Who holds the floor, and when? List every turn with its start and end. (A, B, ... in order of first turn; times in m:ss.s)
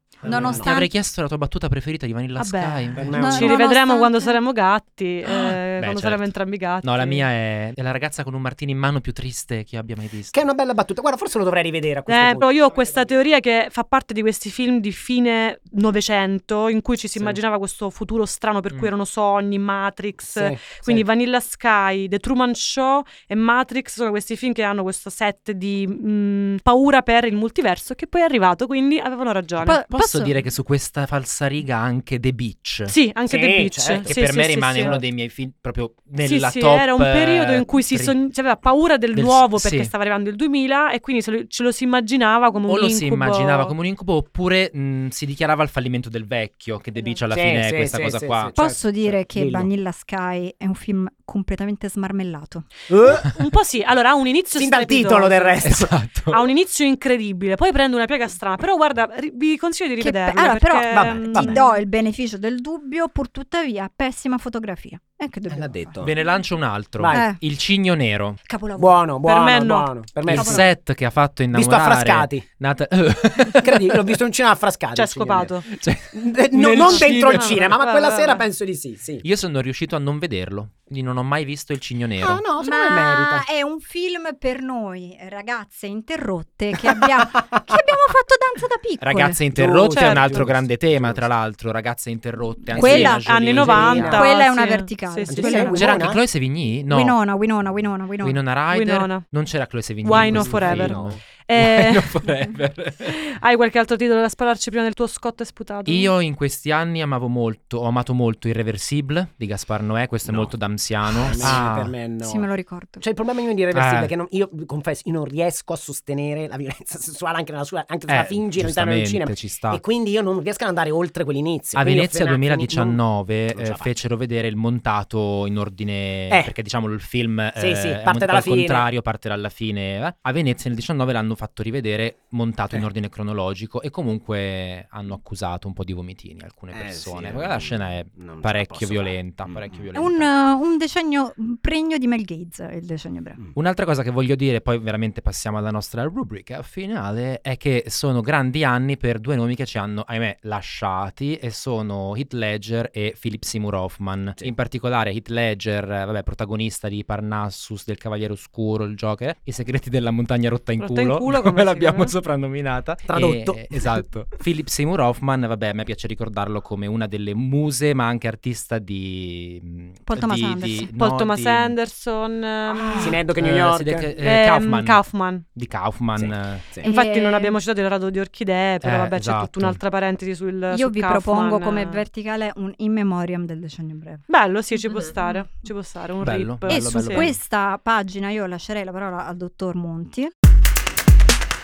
0:00.2-0:00.7 A
0:00.2-0:00.9 B
0:00.3-0:03.3 C
0:02.4-0:07.2 D
0:03.0-0:03.6 A
0:03.1-0:04.4 B
0:05.3-0:10.4 C
0:10.3-0:13.1 A
0:12.1-0:29.8 D
0:20.3-0:21.1 A
0:29.6-0:33.0 C
0:29.6-0:30.4 B
0:32.9-0:35.0 D
0:33.3-0:34.2 A
0:34.0-0:38.2 C
0:34.8-0:35.0 A
0:36.2-0:43.7 D
0:39.1-0:39.9 C
0:42.7-0:48.6 C
0:47.3-0:49.7 A
0:48.6-0:52.7 B
0:52.9-0:53.3 A
0:53.2-0:55.7 D
0:54.6-0:55.9 A
0:55.6-0:56.5 C
0:56.3-1:01.7 D
1:00.0-1:06.0 B
1:00.9-1:01.6 A
1:05.5-1:06.2 A
1:06.0-1:08.4 C
1:07.0-1:07.3 A
1:07.1-1:07.4 B
1:08.4-1:09.0 B
1:08.8-1:10.7 A
1:09.2-1:09.9 D
1:10.2-1:14.2 C
1:10.4-1:10.6 B
1:11.5-1:12.4 A
1:13.6-1:15.5 A
1:14.9-1:15.7 D
1:15.7-1:17.7 C
1:16.1-1:19.2 A
1:16.8-1:18.4 D
1:19.2-1:22.4 C
1:22.2-1:23.4 A
1:22.6-1:29.4 B
1:26.9-1:27.7 A
1:29.0-1:34.3 C
1:29.5-1:31.3 A
1:29.9-1:30.4 D
1:32.8-1:33.3 B
1:32.8-1:34.3 A
1:32.9-1:35.7 D
1:33.9-1:36.1 B
1:35.3-1:36.2 A
1:35.7-1:37.2 C
1:36.9-1:38.4 B
1:38.2-1:43.2 C
1:38.7-1:39.3 D
1:40.0-1:42.2 D
1:40.2-1:41.2 A
1:43.1-1:46.1 D
1:45.9-1:52.0 C
1:50.3-1:50.5 A
1:51.0-2:03.0 A
1:52.2-1:53.0 B
1:53.7-1:54.1 C
1:58.1-1:59.8 C
2:01.8-2:20.3 C
2:03.5-2:03.9 A
2:07.6-2:08.9 A
2:16.7-2:19.8 A
2:19.9-2:23.4 B
2:23.6-2:51.8 C
2:40.8-2:42.2 D
2:43.1-2:44.1 A
2:50.1-2:50.9 B
2:51.0-2:53.2 D
2:52.9-2:54.1 A
2:53.3-2:56.7 C
2:54.2-2:55.4 D
2:56.2-2:56.9 A
2:56.8-2:57.6 B
2:56.8-3:02.0 D
2:58.8-2:59.8 C
3:00.7-3:04.3 B
3:04.3-3:07.3 D
3:04.9-3:05.4 B
3:06.2-3:07.4 C
3:06.7-3:10.3 B